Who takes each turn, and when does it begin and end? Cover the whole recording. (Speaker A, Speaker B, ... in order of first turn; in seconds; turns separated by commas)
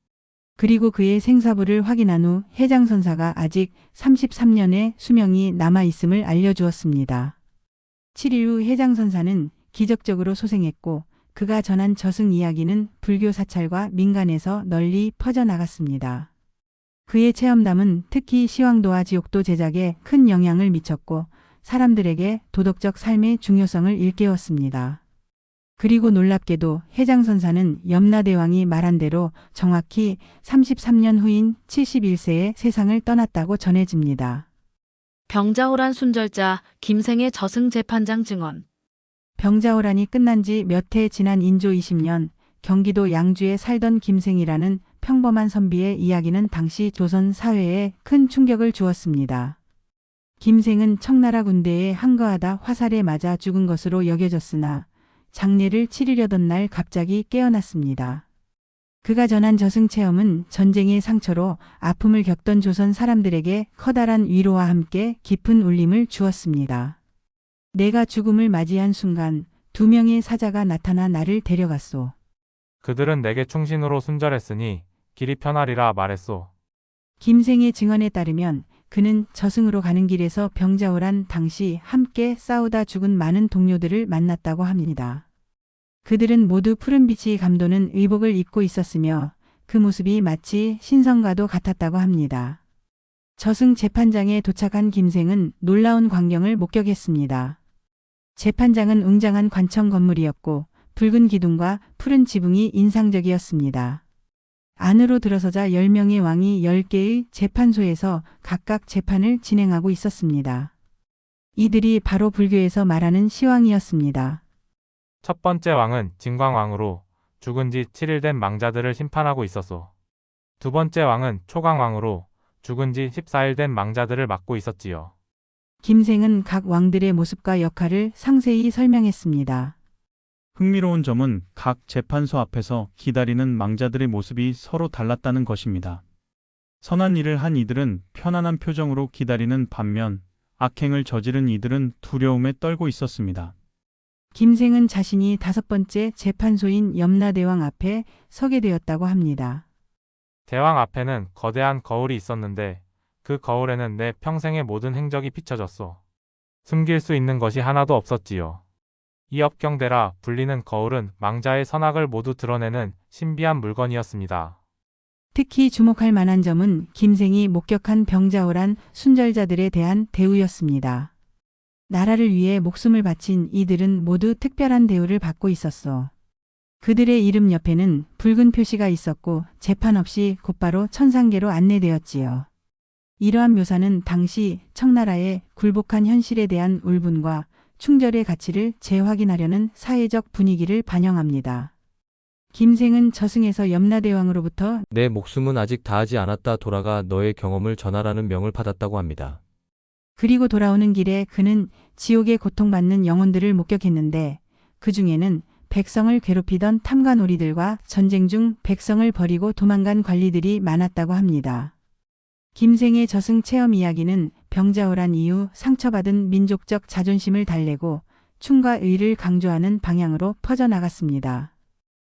Speaker A: 0.6-7.3, Speaker A: 8.2-16.3, Speaker A: 17.1-25.0, Speaker A: 25.8-34.5, Speaker B: 35.3-38.6, Speaker A: 39.4-49.6, Speaker A: 50.4-58.2, Speaker A: 59.0-67.0, Speaker A: 67.7-72.1, Speaker C: 72.8-76.5, Speaker A: 77.2-85.2, Speaker A: 86.0-92.6, Speaker A: 93.4-97.6, Speaker A: 98.4-104.0, Speaker A: 104.8-110.7, Speaker A: 111.6-114.4, Speaker C: 115.2-119.9, Speaker C: 120.6-125.1, Speaker A: 125.8-129.8, Speaker D: 130.6-136.0, Speaker D: 136.8-143.5, Speaker A: 144.3-149.6, Speaker C: 150.5-156.0, Speaker C: 156.7-158.6, Speaker C: 159.3-164.6, Speaker A: 165.3-171.1, Speaker A: 171.9-176.1, Speaker A: 176.8-182.5, Speaker A: 183.2-191.7, Speaker A: 192.5-194.8, Speaker E: 194.9-199.4, Speaker A: 200.2-211.7, Speaker A: 212.6-221.5